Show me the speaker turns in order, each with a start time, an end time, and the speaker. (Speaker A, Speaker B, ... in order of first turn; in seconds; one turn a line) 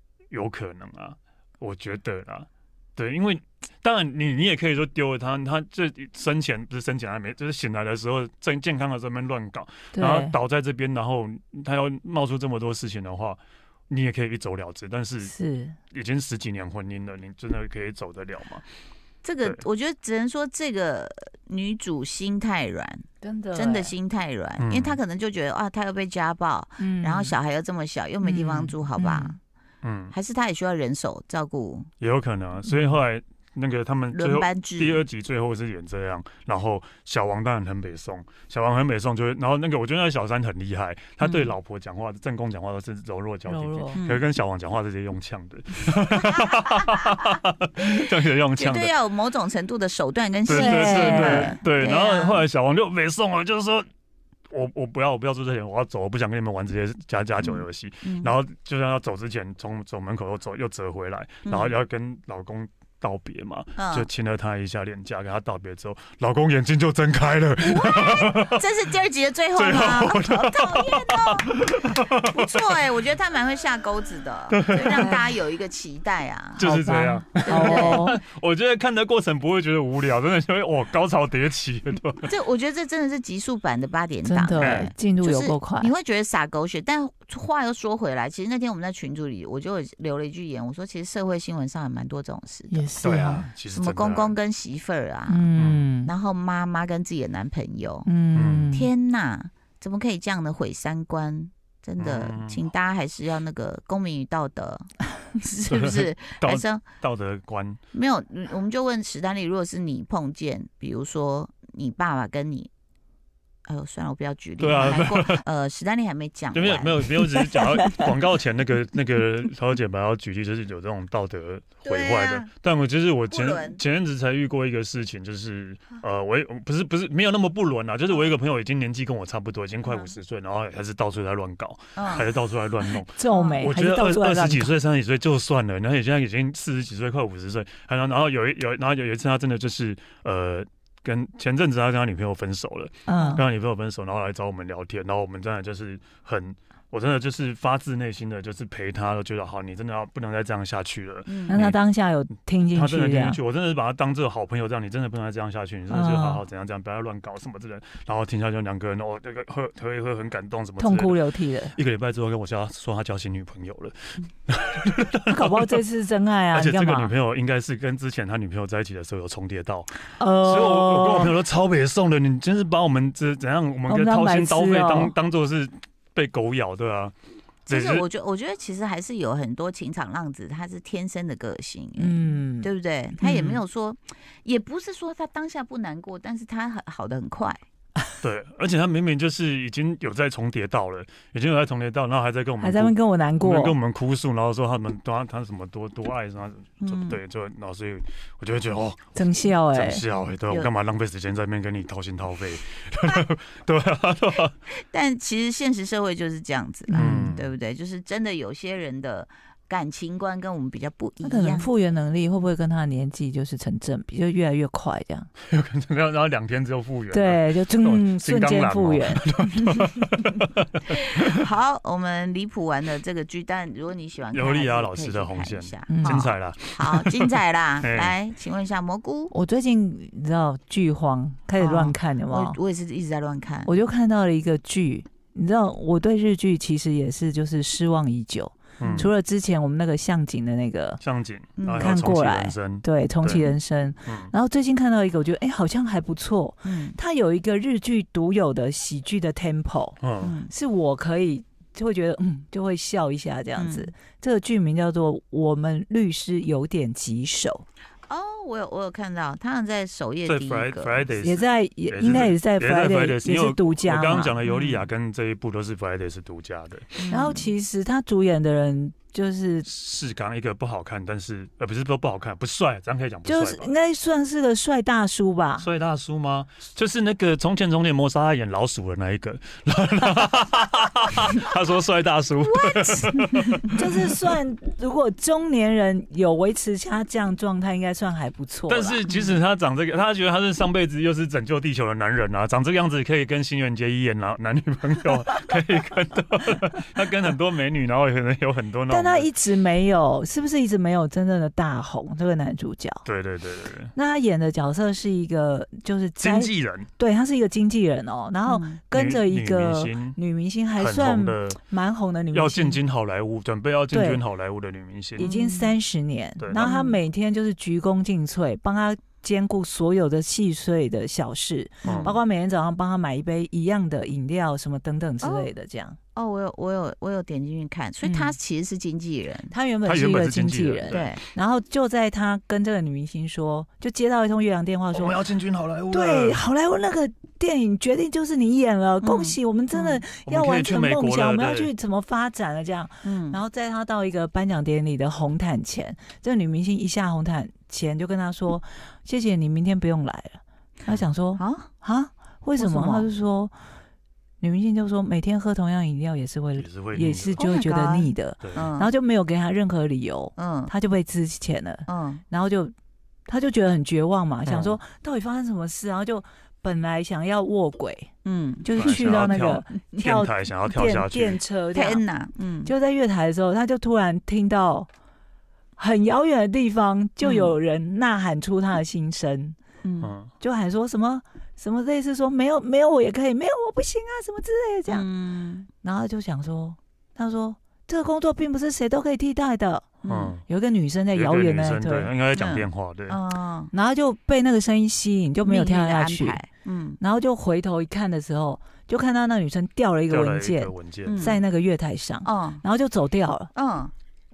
Speaker A: 0.3-15.3
Speaker B: 9.9-10.3
Speaker B: 15.2-15.8
Speaker A: 15.9-18.6
Speaker C: 19.2-29.4
Speaker B: 23.2-23.9
Speaker A: 24.6-25.0
Speaker B: 26.8-27.3
Speaker B: 28.2-29.4
Speaker A: 29.8-30.1
Speaker C: 30.1-31.9
Speaker A: 32.0-48.9
Speaker C: 34.1-35.0
Speaker C: 41.2-41.5
Speaker B: 43.5-44.0
Speaker C: 44.0-44.2
Speaker C: 46.3-47.0
Speaker C: 47.8-52.4
Speaker A: 50.5-53.9
Speaker B: 50.5-51.6
Speaker A: 54.5-68.6
Speaker C: 57.4-58.3
Speaker C: 61.5-61.7
Speaker C: 63.8-64.1
Speaker C: 67.6-76.6
Speaker A: 69.5-72.6
Speaker A: 74.5-75.2
Speaker B: 74.9-75.2
Speaker A: 76.5-82.3
Speaker B: 76.6-78.2
Speaker C: 77.4-78.0
Speaker C: 82.2-92.9
Speaker B: 84.2-85.9
Speaker A: 84.6-84.9
Speaker B: 92.7-93.5
Speaker A: 93.0-94.3
Speaker C: 93.7-95.5
Speaker B: 95.3-96.1
Speaker A: 95.6-95.8
Speaker C: 96.0-98.1
Speaker B: 98.0-98.9
Speaker A: 98.3-98.7
Speaker C: 98.7-106.9
Speaker A: 102.0-102.6
Speaker A: 105.7-107.8
Speaker C: 107.9-112.7
Speaker C: 113.7-117.1
Speaker A: 114.6-115.4
Speaker A: 116.5-151.8
Speaker C: 121.8-122.5
Speaker C: 123.3-123.8
Speaker C: 129.9-130.1
Speaker C: 131.9-132.3
Speaker B: 133.2-134.7
Speaker B: 143.1-143.4
Speaker C: 143.1-143.4
Speaker C: 151.2-151.6
Speaker B: 151.5-153.4
Speaker A: 152.7-161.2
Speaker B: 155.9-156.4
Speaker B: 160.8-161.8
Speaker A: 161.7-165.8
Speaker B: 165.3-167.1
Speaker A: 166.5-177.1
Speaker B: 170.2-171.4
Speaker B: 173.9-175.1
Speaker A: 177.7-178.1
Speaker C: 177.7-187.6
Speaker B: 182.0-182.7
Speaker B: 183.2-183.6
Speaker A: 188.2-204.5
Speaker B: 192.6-193.8
Speaker C: 196.8-197.2
Speaker B: 199.1-200.0
Speaker C: 204.9-211.7
Speaker B: 206.9-207.3
Speaker A: 206.9-207.5
Speaker B: 211.2-215.3
Speaker A: 215.4-220.7
Speaker B: 217.1-219.2
Speaker C: 220.9-229.3
Speaker A: 224.3-228.2
Speaker B: 225.9-226.3
Speaker B: 229.3-232.6
Speaker C: 231.6-233.7
Speaker B: 233.7-241.0
Speaker A: 238.8-239.1
Speaker C: 238.8-239.1
Speaker A: 241.0-243.5
Speaker C: 241.6-241.9
Speaker B: 241.8-257.6
Speaker A: 244.0-244.3
Speaker C: 246.6-247.0
Speaker A: 250.0-250.3
Speaker C: 250.2-250.5
Speaker C: 253.6-253.9
Speaker C: 258.1-261.1
Speaker A: 260.2-267.0
Speaker B: 261.2-264.4
Speaker C: 264.4-264.9
Speaker C: 267.0-267.5
Speaker B: 267.1-269.7
Speaker A: 269.6-273.7
Speaker B: 273.2-275.7
Speaker A: 275.6-284.3
Speaker C: 282.5-283.5
Speaker B: 283.7-289.0
Speaker A: 288.7-299.3
Speaker C: 289.1-289.3
Speaker B: 298.9-303.0
Speaker A: 303.0-303.9
Speaker B: 303.9-312.8
Speaker A: 306.2-306.9
Speaker C: 308.5-308.8
Speaker A: 308.9-310.2
Speaker A: 310.8-311.6
Speaker A: 312.3-315.3
Speaker B: 313.9-314.2
Speaker B: 315.2-326.0
Speaker C: 315.2-315.8
Speaker A: 316.4-316.6
Speaker C: 316.6-317.0
Speaker A: 321.8-322.1
Speaker C: 321.8-322.2
Speaker C: 325.2-325.5
Speaker C: 326.1-329.5
Speaker B: 328.0-328.4
Speaker B: 329.5-335.2
Speaker A: 329.8-331.1
Speaker C: 330.9-331.2
Speaker A: 334.9-336.4
Speaker B: 335.9-353.5
Speaker C: 339.0-340.0
Speaker A: 340.2-341.7
Speaker C: 343.0-343.4
Speaker C: 350.9-351.7
Speaker C: 352.6-353.1
Speaker B: 354.4-362.7
Speaker A: 356.6-357.4
Speaker C: 357.4-358.9
Speaker A: 358.4-358.7
Speaker C: 360.4-360.7
Speaker C: 361.9-362.2
Speaker B: 363.3-368.1
Speaker A: 364.4-364.8
Speaker C: 368.2-369.4
Speaker B: 368.6-372.0
Speaker A: 368.8-371.4
Speaker C: 371.7-372.7
Speaker B: 372.6-374.9
Speaker B: 375.8-379.6
Speaker C: 377.2-377.5
Speaker C: 379.8-380.1
Speaker A: 380.0-380.3
Speaker B: 380.4-385.0
Speaker C: 384.9-385.7
Speaker B: 385.8-389.9
Speaker C: 390.0-390.4
Speaker A: 390.1-390.4
Speaker B: 390.4-392.1
Speaker A: 391.1-393.2
Speaker C: 392.3-393.7
Speaker B: 393.7-396.4
Speaker C: 395.4-397.0
Speaker B: 397.0-403.5
Speaker A: 400.1-401.2
Speaker C: 401.0-401.4
Speaker C: 402.2-402.6
Speaker C: 403.5-403.9